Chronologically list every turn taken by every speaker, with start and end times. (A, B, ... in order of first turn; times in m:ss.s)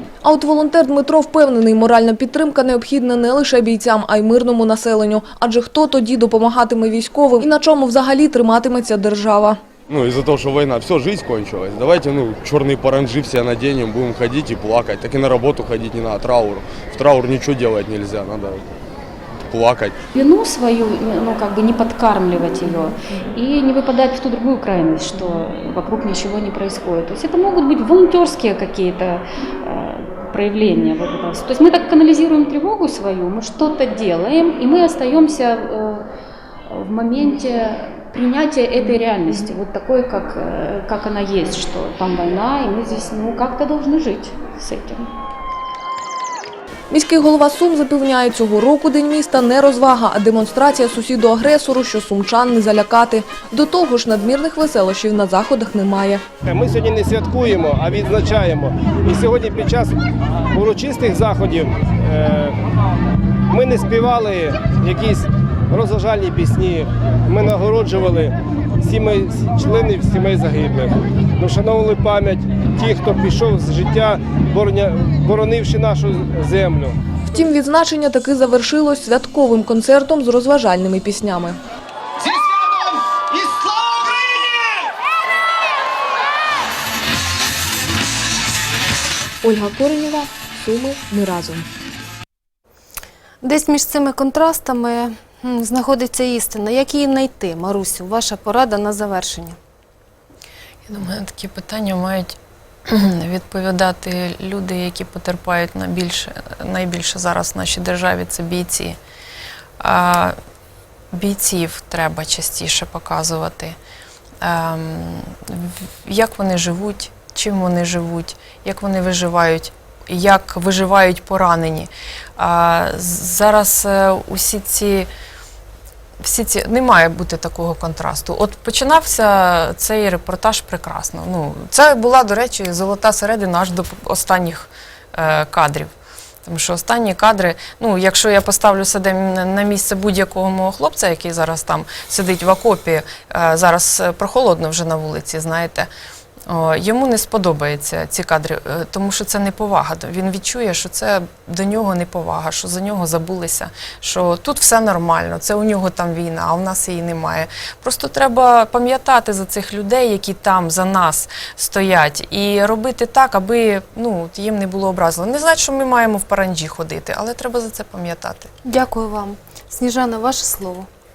0:00.2-0:09.6 A
0:09.9-0:18.7 B
0:19.4-0:20.0 B
0:20.1-0:36.1 C
0:36.6-0:45.1 C
0:46.9-0:56.2 A
0:56.4-0:59.9 D
1:00.5-1:02.6 D
1:03.5-1:17.0 D
1:17.3-1:21.6 A
1:29.4-1:31.6 A
1:33.4-1:39.6 E
1:40.9-1:49.0 F
1:49.8-1:50.3 F
1:51.1-1:53.8 F
1:54.4-2:05.1 F
2:06.2-2:15.9 F
2:16.4-2:25.9 F
2:26.5-2:48.5 F
2:48.6-2:50.9 E